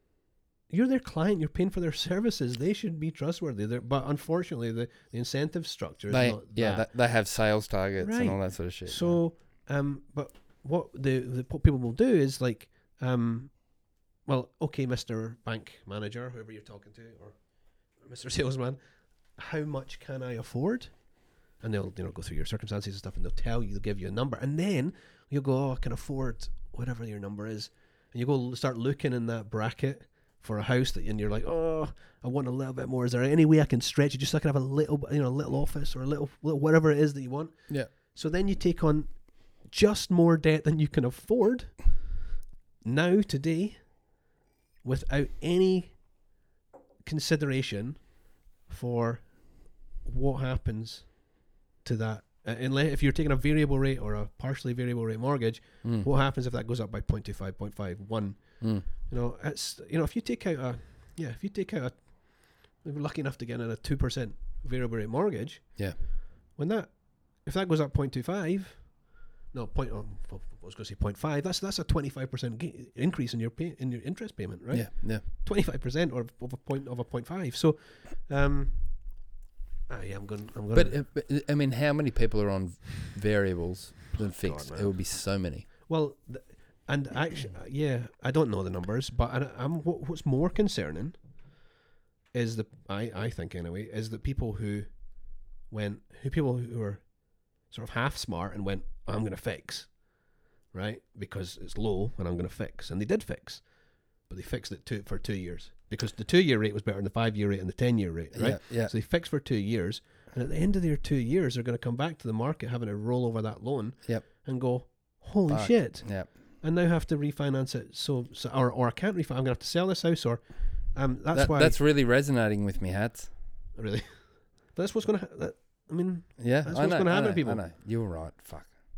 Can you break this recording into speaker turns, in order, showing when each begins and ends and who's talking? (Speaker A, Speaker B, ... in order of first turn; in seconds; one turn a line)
Speaker A: 0.7-7.0
Speaker B: 6.1-9.2
Speaker A: 8.0-42.2
Speaker A: 42.8-44.2
Speaker A: 44.8-46.1
Speaker A: 47.0-79.3
Speaker B: 55.8-56.1
Speaker B: 58.6-58.9
Speaker B: 74.7-75.2
Speaker A: 79.9-81.0
Speaker B: 80.7-85.7
Speaker A: 84.2-91.4
Speaker A: 92.3-121.8
Speaker B: 108.3-108.9
Speaker B: 114.8-116.3
Speaker B: 121.3-123.3
Speaker A: 123.7-127.7
Speaker B: 126.4-128.8